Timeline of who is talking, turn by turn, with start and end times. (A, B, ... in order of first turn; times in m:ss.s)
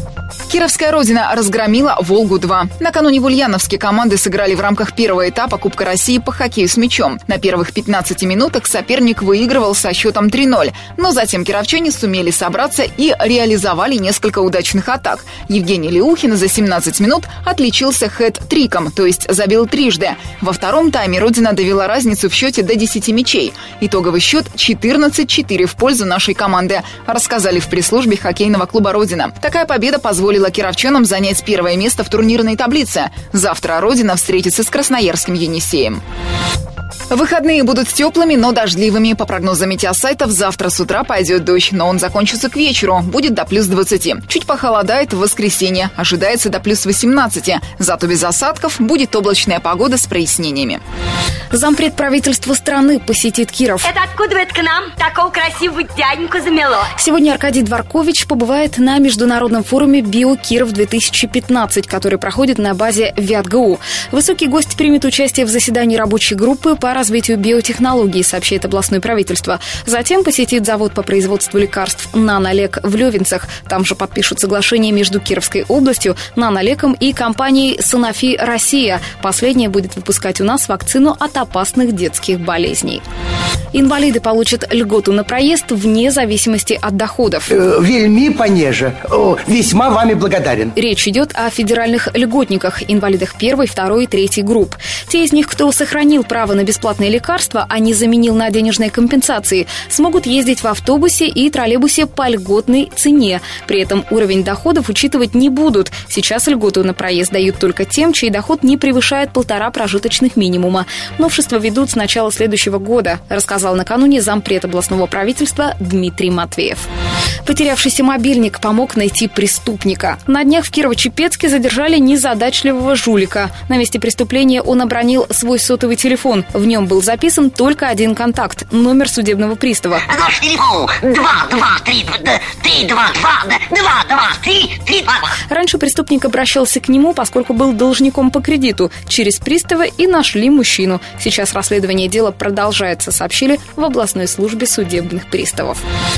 0:00.5-0:36.0 A
0:37.1-0:50.8 A
0:51.5-0:53.9 B
0:53.8-0:56.9 C
0:56.9-1:23.0 B
1:23.7-1:27.5 B
1:27.5-1:30.7 D
1:30.8-1:56.9 B
1:57.4-2:10.0 B
2:10.1-2:15.2 E
2:15.5-2:25.8 B